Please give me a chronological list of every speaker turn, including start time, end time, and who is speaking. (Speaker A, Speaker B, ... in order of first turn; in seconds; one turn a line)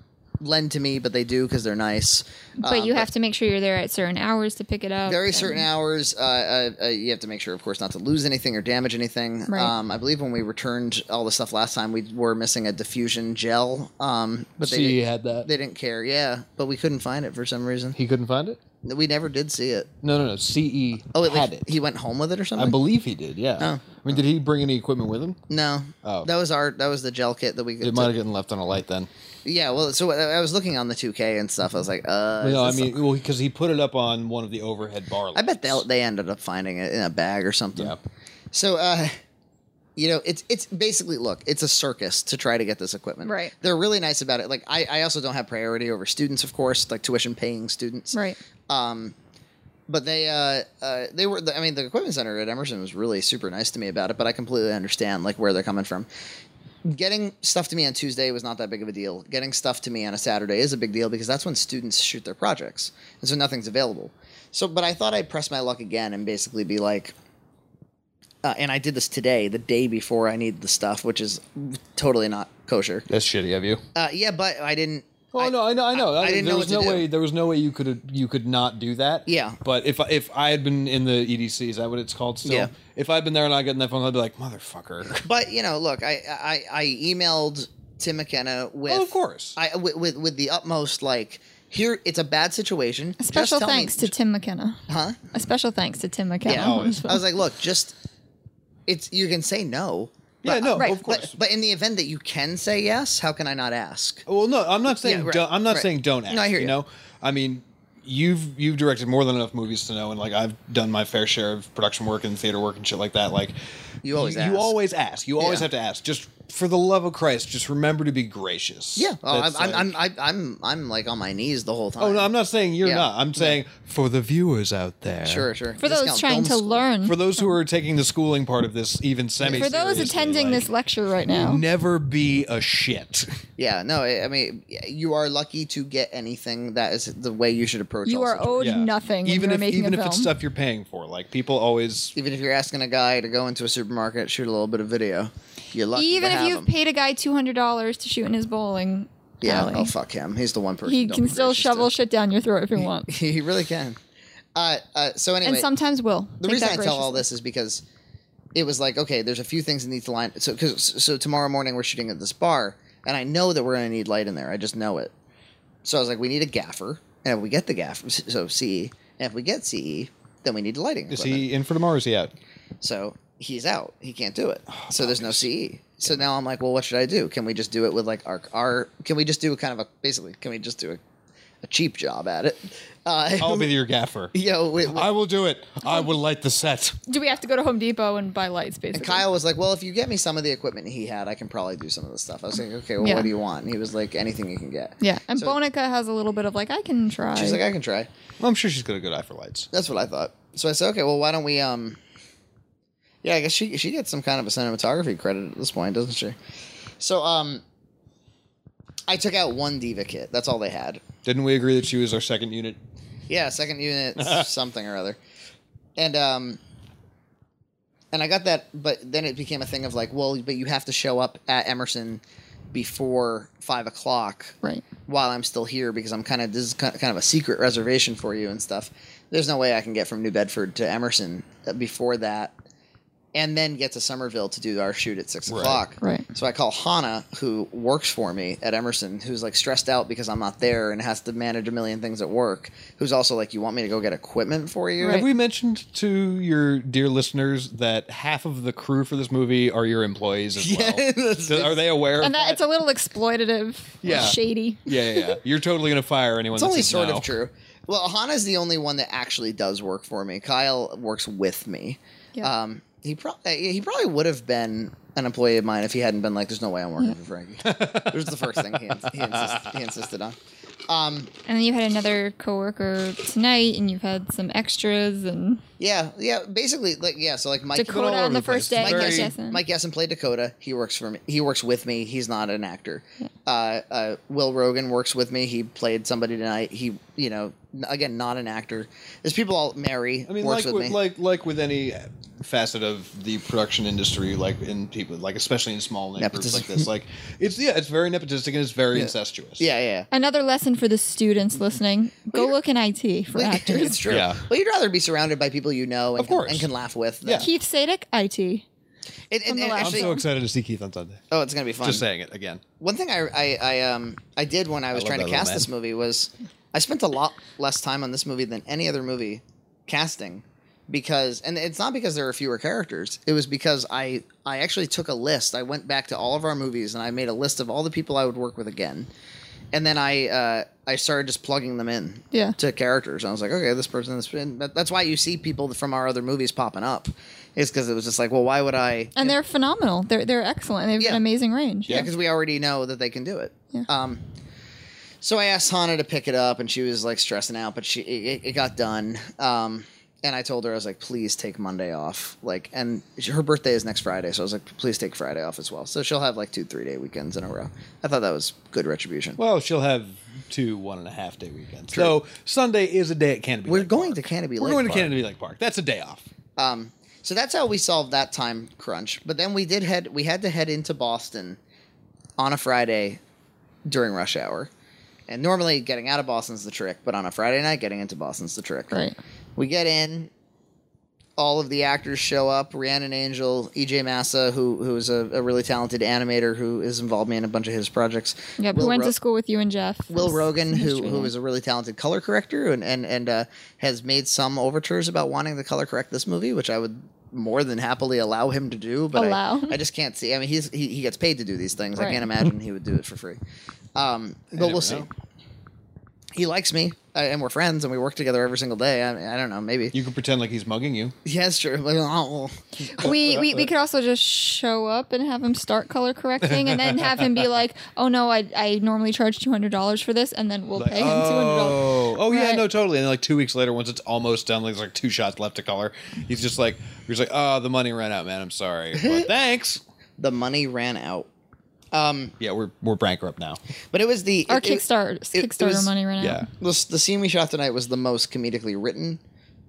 Speaker A: 0.4-3.1
Speaker B: 2.6-5.7
Speaker A: 5.1-18.0
Speaker B: 9.5-9.7
Speaker C: 14.6-15.5
Speaker C: 17.9-18.6
Speaker A: 18.8-19.9
Speaker C: 20.0-21.7
Speaker A: 21.1-22.8
Speaker C: 22.6-25.4
Speaker A: 23.6-24.0
Speaker A: 25.5-28.1
Speaker C: 27.8-29.1
Speaker A: 29.4-33.0
Speaker C: 32.4-35.8
Speaker A: 35.3-38.0
Speaker A: 38.5-39.1
Speaker A: 40.0-48.2
Speaker B: 43.2-43.5
Speaker B: 48.1-48.4
Speaker A: 48.7-49.1
Speaker A: 49.9-56.1
Speaker A: 56.8-67.1
Speaker A: 68.4-73.0
Speaker C: 73.1-73.8
Speaker A: 73.9-77.1
Speaker C: 75.3-85.2
Speaker A: 79.3-79.6
Speaker A: 82.4-82.7
Speaker A: 85.2-94.1
Speaker C: 88.9-89.6
Speaker B: 93.2-94.8
Speaker A: 94.9-95.2
Speaker B: 95.3-97.2
Speaker A: 96.5-97.9
Speaker C: 96.5-97.2
Speaker A: 98.9-104.2
Speaker C: 100.4-101.3
Speaker C: 104.3-113.5
Speaker A: 104.9-106.8
Speaker A: 114.0-114.7
Speaker C: 114.1-119.9
Speaker A: 115.4-115.7
Speaker A: 119.0-122.3
Speaker C: 122.0-125.5
Speaker A: 122.8-123.6
Speaker A: 125.2-126.8
Speaker B: 125.8-127.2
Speaker C: 127.0-130.7
Speaker A: 129.4-130.1
Speaker B: 129.5-131.6
Speaker C: 131.3-133.4
Speaker A: 133.6-138.7
Speaker B: 138.1-140.3
Speaker C: 138.6-142.1
Speaker A: 142.1-146.7
Speaker B: 145.9-149.9
Speaker A: 149.4-151.9
Speaker B: 150.8-153.1
Speaker A: 152.8-154.0
Speaker A: 154.6-155.7
Speaker B: 155.4-157.2
Speaker A: 156.4-157.8
Speaker A: 158.5-165.1
Speaker A: 165.8-171.5
Speaker C: 171.1-172.3
Speaker A: 172.8-181.0
Speaker C: 174.7-175.5
Speaker A: 181.6-183.7
Speaker C: 183.4-184.3
Speaker A: 184.3-185.1
Speaker C: 184.8-187.0
Speaker B: 187.1-189.2
Speaker A: 188.9-195.6
Speaker B: 193.0-193.3
Speaker B: 195.0-197.6
Speaker A: 197.3-198.1
Speaker C: 198.4-199.7
Speaker A: 199.7-202.0
Speaker A: 203.2-206.3
Speaker A: 207.0-207.6
Speaker A: 209.1-211.0
Speaker C: 211.2-212.8
Speaker A: 213.3-215.2
Speaker C: 214.2-214.5
Speaker A: 216.0-216.6
Speaker A: 218.1-222.2
Speaker A: 222.7-232.5
Speaker A: 233.3-245.2
Speaker C: 235.5-235.8
Speaker B: 236.0-236.3
Speaker B: 245.0-245.2
Speaker C: 245.0-252.6
Speaker A: 250.6-251.8
Speaker B: 252.2-254.9
Speaker C: 254.0-257.3
Speaker A: 256.6-270.4
Speaker C: 267.6-269.7
Speaker A: 270.9-271.3
Speaker B: 271.5-275.6
Speaker A: 275.8-291.0
Speaker B: 277.8-279.6
Speaker C: 277.8-279.3
Speaker C: 290.3-299.6
Speaker A: 296.2-296.9
Speaker A: 298.9-300.1
Speaker B: 300.1-304.0
Speaker A: 303.3-307.5
Speaker C: 304.1-304.4
Speaker C: 306.2-306.7
Speaker C: 307.2-307.5
Speaker B: 307.4-308.6
Speaker A: 309.3-310.2
Speaker B: 309.5-310.2
Speaker C: 309.8-311.2
Speaker A: 311.3-312.0
Speaker C: 311.8-312.6
Speaker A: 312.8-329.1
Speaker C: 314.9-315.7
Speaker A: 329.7-339.4
Speaker B: 339.1-342.1
Speaker A: 341.9-344.2
Speaker A: 345.2-359.4
Speaker C: 359.4-366.3
Speaker A: 363.6-365.1
Speaker A: 366.6-371.6
Speaker A: 372.4-373.2
Speaker A: 373.9-374.7
Speaker A: 375.3-379.0
Speaker A: 379.6-380.3
Speaker A: 381.4-389.1
Speaker B: 388.6-391.3
Speaker A: 390.1-403.4
Speaker B: 399.1-399.8
Speaker B: 401.9-402.2
Speaker A: 403.9-405.1
Speaker C: 404.5-405.1
Speaker A: 406.4-409.9
Speaker C: 409.9-411.1
Speaker A: 411.2-413.4
Speaker B: 412.9-422.6
Speaker C: 413.0-413.6
Speaker C: 416.4-417.5
Speaker C: 420.8-429.8
Speaker A: 429.0-429.3
Speaker A: 430.2-431.3
Speaker A: 431.9-432.3
Speaker C: 432.4-433.6
Speaker A: 433.9-435.9
Speaker B: 434.5-436.5
Speaker C: 436.2-436.5
Speaker A: 436.6-439.2